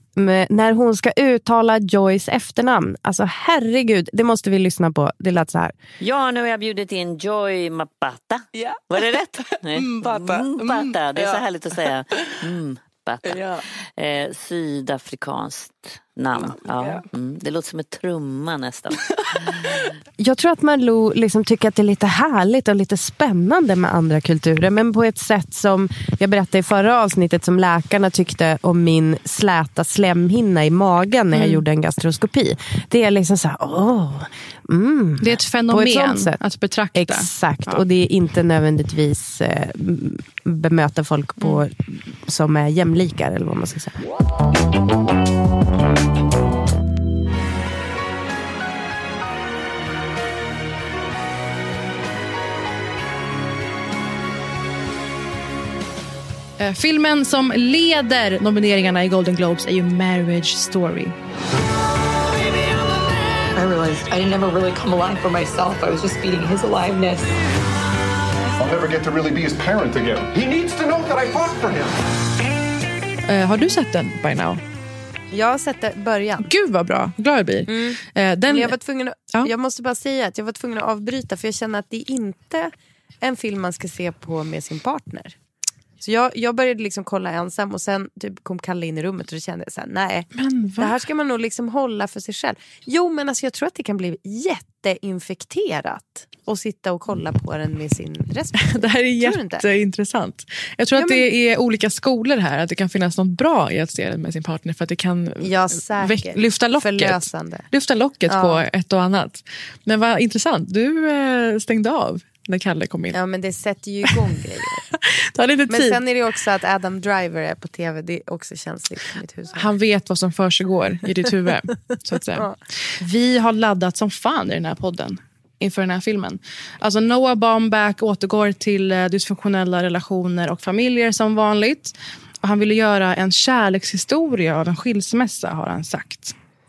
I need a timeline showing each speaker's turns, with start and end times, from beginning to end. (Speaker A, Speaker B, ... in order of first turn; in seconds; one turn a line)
Speaker A: 0.1-5.7
Speaker B: 6.0-13.4
Speaker C: 9.7-11.4
Speaker C: 13.2-13.5
Speaker B: 14.0-19.8
Speaker A: 20.2-36.4
Speaker D: 31.3-31.6
Speaker D: 35.2-37.8
Speaker A: 36.9-44.0
Speaker D: 56.6-61.1
Speaker C: 63.5-67.3
Speaker E: 68.5-71.9
Speaker D: 73.2-74.6
Speaker A: 75.3-76.5
Speaker D: 76.4-78.7
Speaker A: 77.7-85.3
Speaker A: 86.0-99.6
Speaker D: 90.3-90.9
Speaker D: 98.6-113.2
Speaker A: 100.9-101.2
Speaker A: 105.4-107.7
Speaker A: 108.3-108.6
Speaker A: 113.1-114.8
Speaker D: 114.9-116.0
Speaker A: 115.7-119.7
Speaker D: 119.5-136.3